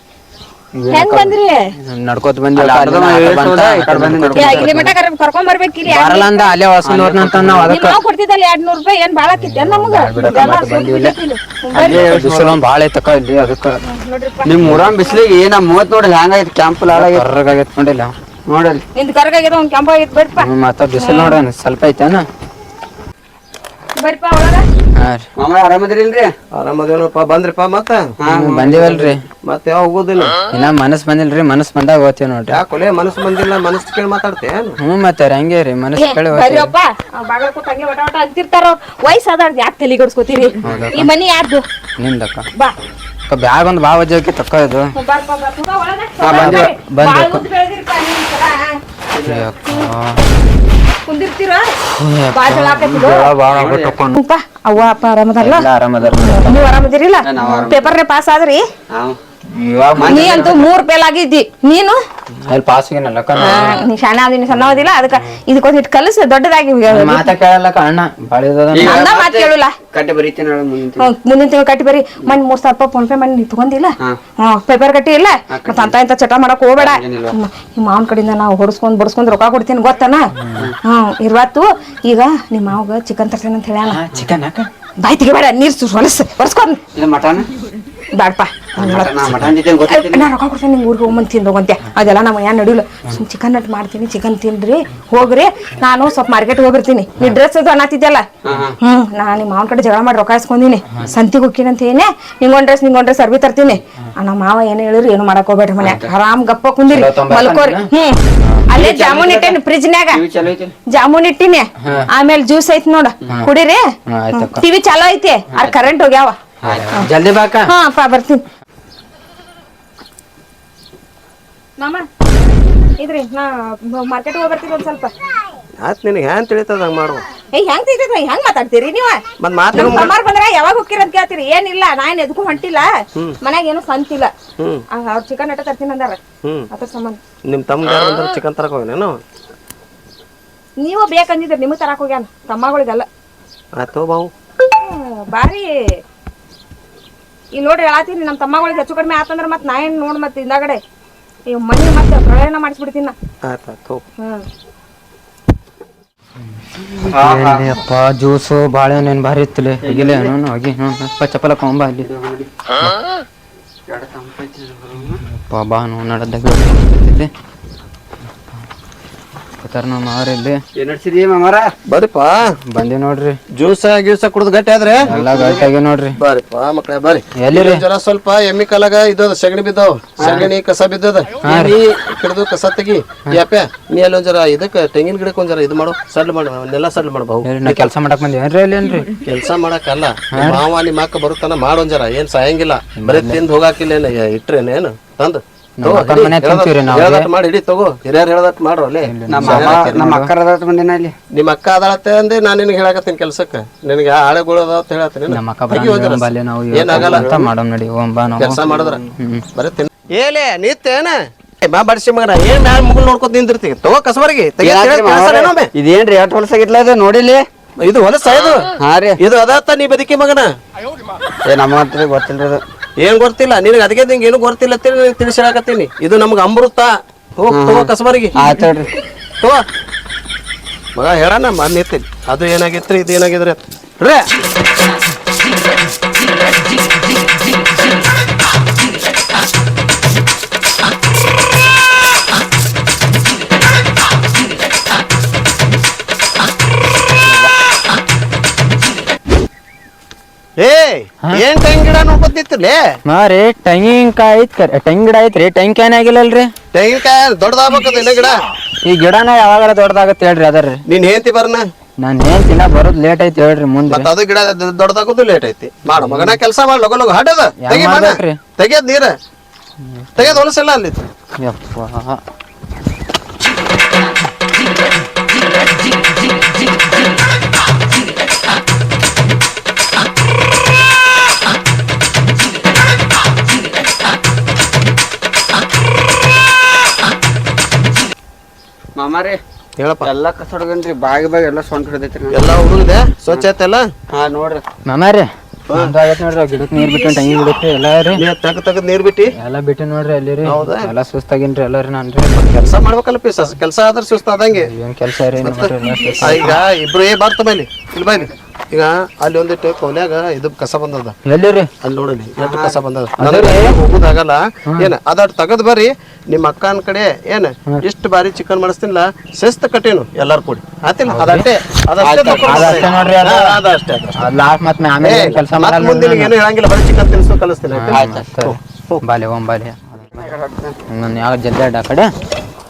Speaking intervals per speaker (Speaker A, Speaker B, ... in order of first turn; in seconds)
Speaker A: 0.8-5.0, 5.9-8.0, 9.4-11.2, 11.8-13.8, 16.9-18.1, 20.4-22.2, 24.9-25.2, 28.3-29.2, 30.5-32.6, 34.8-36.7, 40.6-41.1, 42.0-42.4, 43.3-44.9, 46.3-47.4, 49.2-50.2, 52.0-54.2, 55.4-56.7, 59.5-60.5, 62.4-63.8, 66.9-69.0, 80.4-80.7, 83.8-84.7, 106.9-107.9, 108.4-108.7, 111.8-112.1, 114.1-114.6, 116.6-117.7, 156.8-162.1, 165.3-167.3, 169.6-170.6, 172.7-173.4, 175.1-176.1, 177.4-177.8, 180.2-180.5, 181.4-181.8, 187.4-189.1, 190.3-190.6, 193.0-193.4, 195.8-197.3, 199.1-200.3, 205.3-208.6, 209.2-209.4, 253.1-256.5, 258.8-260.8, 262.0-264.1, 265.9-266.4, 267.6-268.4, 270.0-270.4, 271.4-272.2, 294.9-298.2, 299.4-302.3, 304.5-306.6, 311.2-311.7, 313.2-313.7, 321.1-321.4, 322.4-323.6, 324.2-326.3, 327.7-330.2, 330.9-332.1
Speaker B: 0.9-1.7, 4.3-6.5, 7.7-12.0, 13.8-15.2, 18.9-21.4, 23.9-24.6, 36.0-41.6, 45.0-48.8, 51.0-51.7, 52.3-53.3, 54.1-55.6, 56.2-58.6, 60.0-62.0, 63.4-67.3, 68.8-69.8, 71.0-80.3, 80.8-84.0, 85.0-86.8, 88.1-89.2, 89.8-98.2, 98.8-110.2, 110.9-113.8, 114.3-116.4, 117.7-118.4, 121.8-122.0, 123.0-125.1, 127.5-132.9, 133.4-134.3, 134.9-136.2, 136.7-137.2, 140.8-143.1, 144.8-145.7, 147.5-150.8, 151.5-153.1, 154.2-154.4
Speaker C: 2.5-4.7, 6.8-7.8, 10.2-10.5, 11.7-12.6, 14.4-17.2, 18.4-18.8, 25.4-26.3, 28.2-29.1, 46.2-46.7, 49.1-49.5, 53.5-54.0, 57.2-57.9, 58.9-59.2, 59.9-60.6, 68.7-71.1, 75.5-76.0, 76.8-77.3, 86.9-87.5, 88.8-90.3, 98.4-98.8, 105.8-106.1, 108.7-109.6, 110.1-110.7, 115.5-115.8, 116.6-116.9, 157.1-157.8, 159.8-160.3, 162.0-162.6, 163.9-165.2, 170.7-171.7, 175.1-175.7, 180.2-180.5, 199.3-201.1, 206.9-207.5, 208.7-209.0, 214.6-217.4, 218.8-219.2, 221.5-222.6, 227.5-228.9, 288.9-289.4, 290.0-292.5, 294.1-294.6, 312.4-312.8, 322.0-322.9, 327.9-328.3, 330.2-330.8
Speaker D: 26.5-28.1, 29.4-30.4, 32.5-34.8, 125.8-127.2, 129.4-130.1, 137.5-139.1, 143.8-144.3, 153.4-154.0, 171.9-172.5, 173.6-175.1, 176.2-187.9, 189.2-200.0, 201.3-207.3, 208.4-209.0, 209.5-215.7, 217.8-218.7, 219.2-220.5, 223.0-228.4, 230.9-233.6, 250.6-252.8, 256.7-258.3, 260.9-261.6, 263.9-269.1, 270.1-271.0, 289.8-290.1, 292.3-293.8, 298.1-299.3, 300.4-300.9, 302.3-304.7, 305.4-311.1, 311.8-324.1, 325.0-329.0